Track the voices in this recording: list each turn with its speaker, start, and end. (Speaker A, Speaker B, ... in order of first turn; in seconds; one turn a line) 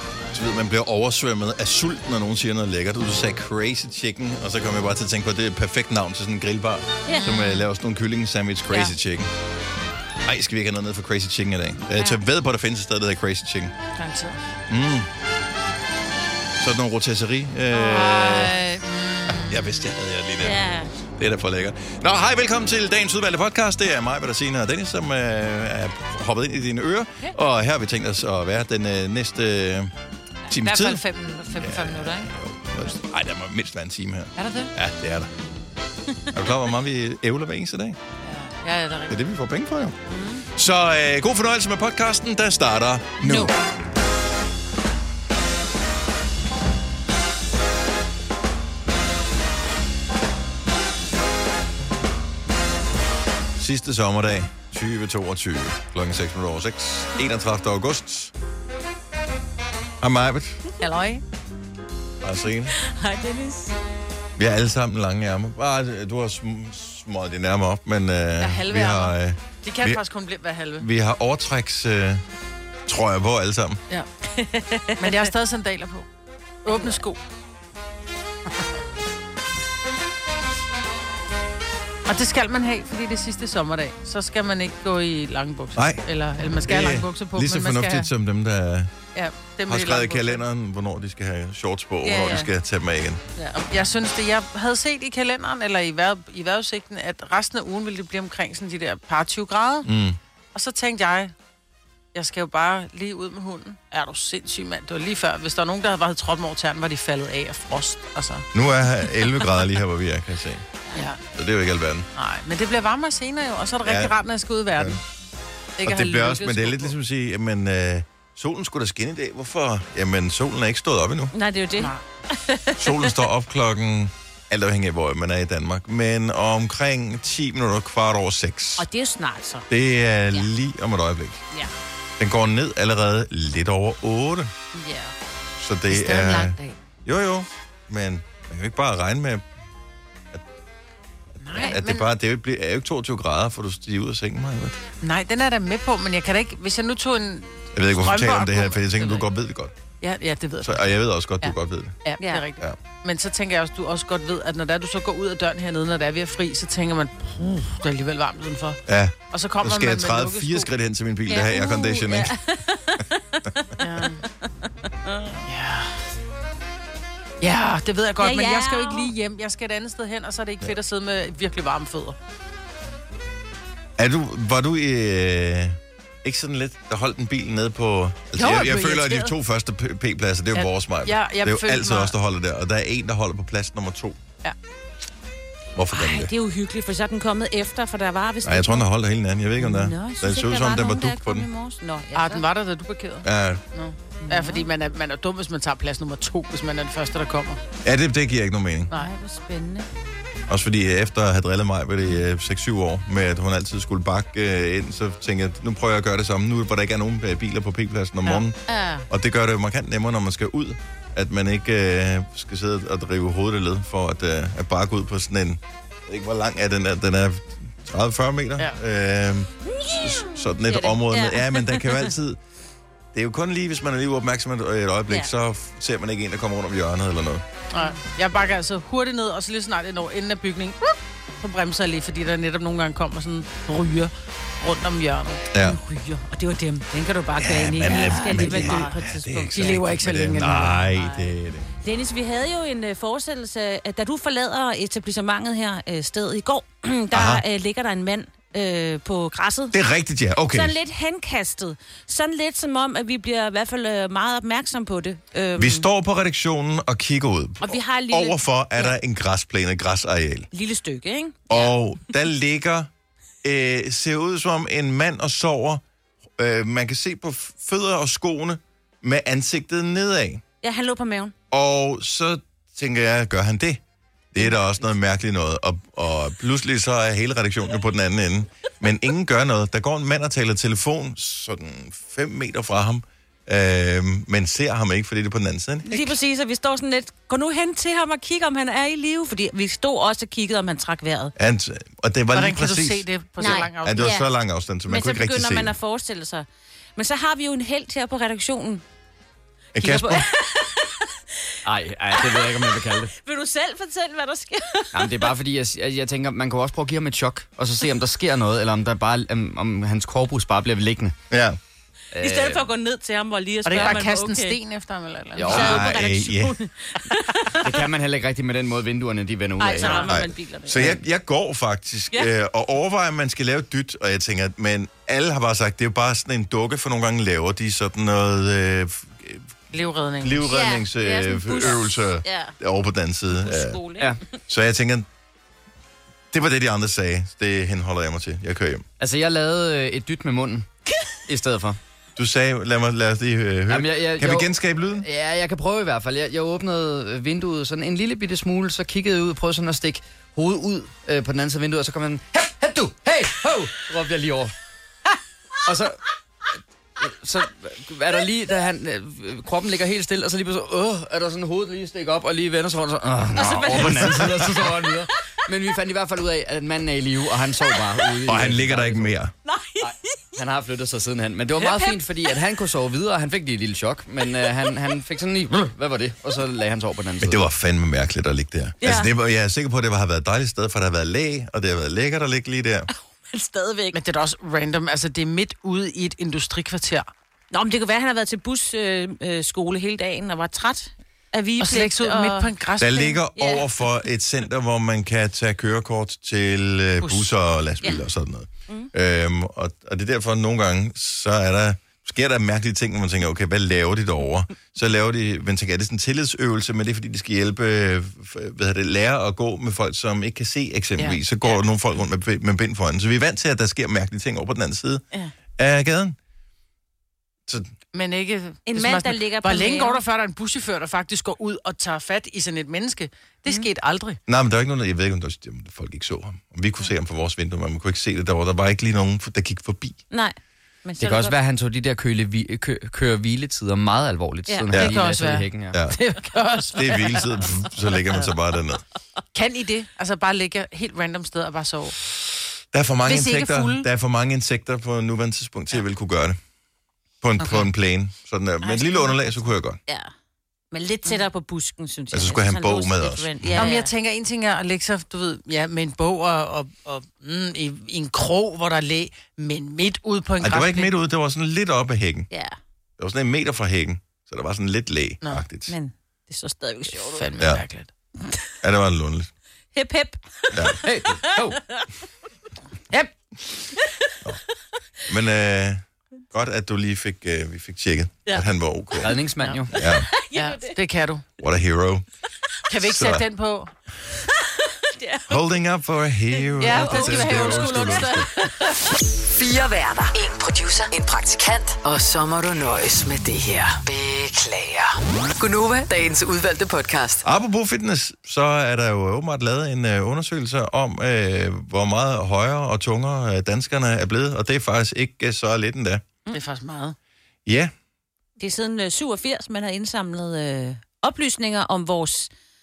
Speaker A: 0.3-9.3
Speaker B: 7.0-7.5
Speaker A: 10.2-13.7
Speaker B: 11.9-12.2
Speaker C: 13.9-14.4
Speaker A: 14.7-15.1
Speaker A: 16.6-18.6
Speaker C: 17.7-19.9
Speaker A: 19.3-29.9
Speaker B: 20.4-20.9
Speaker C: 30.5-32.3
Speaker A: 30.5-35.3
Speaker C: 34.4-34.7
Speaker A: 36.3-38.0
Speaker C: 38.2-39.1
Speaker A: 39.1-40.0
Speaker B: 40.1-40.5
Speaker A: 40.5-43.5
Speaker B: 43.2-43.5
Speaker A: 53.6-58.3
Speaker A: 60.0-60.6
Speaker C: 60.8-61.2
Speaker A: 62.2-62.8
Speaker B: 62.8-63.8
Speaker A: 64.4-70.0
Speaker C: 68.4-70.9
Speaker A: 70.8-72.2
Speaker A: 72.9-73.8
Speaker B: 74.3-75.3
Speaker C: 75.0-76.0
Speaker C: 76.6-77.2
Speaker B: 76.7-77.0
Speaker C: 82.0-88.1
Speaker A: 85.7-86.0
Speaker A: 86.6-88.9
Speaker C: 89.1-90.4
Speaker A: 89.7-93.2
Speaker C: 92.0-92.5
Speaker C: 93.3-99.9
Speaker A: 99.8-100.2
Speaker C: 100.5-101.3
Speaker C: 102.1-108.5
Speaker A: 108.5-110.6
Speaker C: 110.9-111.2
Speaker A: 111.3-112.1
Speaker C: 112.2-115.0
Speaker A: 113.8-114.1
Speaker C: 115.8-116.9
Speaker A: 115.8-121.3
Speaker B: 121.3-123.2
Speaker C: 121.8-122.0
Speaker A: 122.8-128.9
Speaker B: 128.8-129.7
Speaker A: 129.7-131.4
Speaker A: 132.2-134.5
Speaker B: 134.7-135.1
Speaker A: 135.6-139.4
Speaker C: 135.9-136.8
Speaker C: 141.4-142.1
Speaker A: 141.5-144.8
Speaker C: 145.0-149.2
Speaker A: 147.7-149.7
Speaker C: 150.0-160.7
Speaker A: 150.6-152.0
Speaker B: 152.2-152.5
Speaker A: 158.9-162.3
Speaker B: 161.3-164.1
Speaker C: 163.8-164.2
Speaker B: 165.1-165.4
Speaker C: 165.4-166.0
Speaker C: 167.4-172.2
Speaker B: 168.2-169.1
Speaker A: 174.0-184.2
Speaker C: 178.3-179.3
Speaker C: 180.5-182.1
Speaker A: 185.7-186.3
Speaker B: 185.9-188.9
Speaker A: 188.4-191.5
Speaker B: 189.6-192.4
Speaker C: 192.1-197.6
Speaker A: 193.2-193.6
Speaker B: 194.2-194.7
Speaker A: 197.8-198.9
Speaker B: 198.9-199.9
Speaker A: 200.5-208.6
Speaker C: 208.2-209.0
Speaker A: 209.1-222.4
Speaker B: 219.8-222.1
Speaker A: 223.1-227.4
Speaker C: 227.7-235.4
Speaker A: 235.5-235.8
Speaker B: 235.5-239.8
Speaker A: 237.4-241.7
Speaker C: 237.8-238.9
Speaker C: 239.5-240.8
Speaker B: 240.9-241.3
Speaker B: 241.8-249.8
Speaker A: 247.1-247.4
Speaker A: 249.7-250.8
Speaker B: 250.5-255.9
Speaker A: 255.6-260.5
Speaker B: 257.6-259.0
Speaker B: 260.5-261.8
Speaker A: 261.5-262.9
Speaker A: 263.4-265.8
Speaker A: 266.4-270.4
Speaker B: 270.6-271.3
Speaker A: 271.5-273.8
Speaker A: 274.3-286.1
Speaker B: 285.8-291.3
Speaker A: 291.4-295.7
Speaker C: 292.3-294.2
Speaker B: 293.4-294.3
Speaker B: 294.9-298.8
Speaker A: 299.7-300.3
Speaker B: 299.7-301.5
Speaker D: 301.6-303.1
Speaker B: 302.1-305.3
Speaker D: 304.9-311.1
Speaker A: 311.3-311.6
Speaker D: 312.1-312.7
Speaker B: 312.2-314.6
Speaker C: 313.6-315.9
Speaker D: 315.4-315.8
Speaker B: 315.4-317.6
Speaker A: 315.5-316.6
Speaker D: 317.6-319.9
Speaker B: 319.6-321.0
Speaker C: 319.6-320.2
Speaker A: 319.9-329.5
Speaker C: 329.7-330.5
Speaker A: 330.2-333.8
Speaker B: 330.5-332.5
Speaker B: 333.3-334.2
Speaker A: 334.5-335.1
Speaker A: 336.3-338.9
Speaker D: 339.0-340.7
Speaker D: 341.3-341.8
Speaker A: 342.1-345.1
Speaker D: 343.7-354.5
Speaker D: 355.7-356.0
Speaker D: 357.0-369.1
Speaker B: 363.3-364.2
Speaker A: 363.4-364.9
Speaker A: 368.2-369.3
Speaker B: 369.4-369.9
Speaker D: 369.8-377.4
Speaker B: 371.5-372.3
Speaker A: 377.2-382.9
Speaker B: 378.8-379.1
Speaker B: 382.9-384.0
Speaker C: 383.9-387.1
Speaker B: 387.5-392.5
Speaker C: 391.6-393.2
Speaker A: 392.8-415.0
Speaker B: 393.4-393.7
Speaker C: 397.0-397.3
Speaker A: 415.6-416.1
Speaker C: 417.9-424.2
Speaker B: 418.7-420.0
Speaker A: 424.3-430.0
Speaker B: 430.1-431.4
Speaker D: 431.0-435.8
Speaker B: 434.4-434.9
Speaker C: 434.7-437.4
Speaker A: 435.7-436.0
Speaker A: 436.7-438.8
Speaker C: 439.3-441.9
Speaker A: 442.7-446.4
Speaker C: 443.0-443.9
Speaker A: 447.2-449.8
Speaker C: 447.4-447.7
Speaker B: 448.6-449.2
Speaker B: 450.7-453.9
Speaker A: 452.1-453.7
Speaker C: 453.6-460.9
Speaker A: 460.4-462.3
Speaker B: 462.3-462.6
Speaker A: 463.0-465.7
Speaker B: 465.7-467.3
Speaker C: 466.9-467.9
Speaker A: 468.6-469.3
Speaker B: 469.7-471.8
Speaker A: 470.5-470.8
Speaker D: 470.9-471.5
Speaker A: 475.1-479.1
Speaker D: 479.0-479.7
Speaker C: 479.4-479.6
Speaker A: 479.7-480.1
Speaker B: 479.7-480.7
Speaker C: 480.3-481.2
Speaker A: 481.4-482.0
Speaker C: 482.7-483.7
Speaker A: 482.8-483.3
Speaker B: 484.9-485.4
Speaker A: 485.3-488.3
Speaker B: 486.4-488.5
Speaker C: 486.6-488.5
Speaker E: 489.3-497.2
Speaker A: 497.2-506.0
Speaker C: 506.3-506.9
Speaker A: 507.4-507.7
Speaker B: 508.4-512.3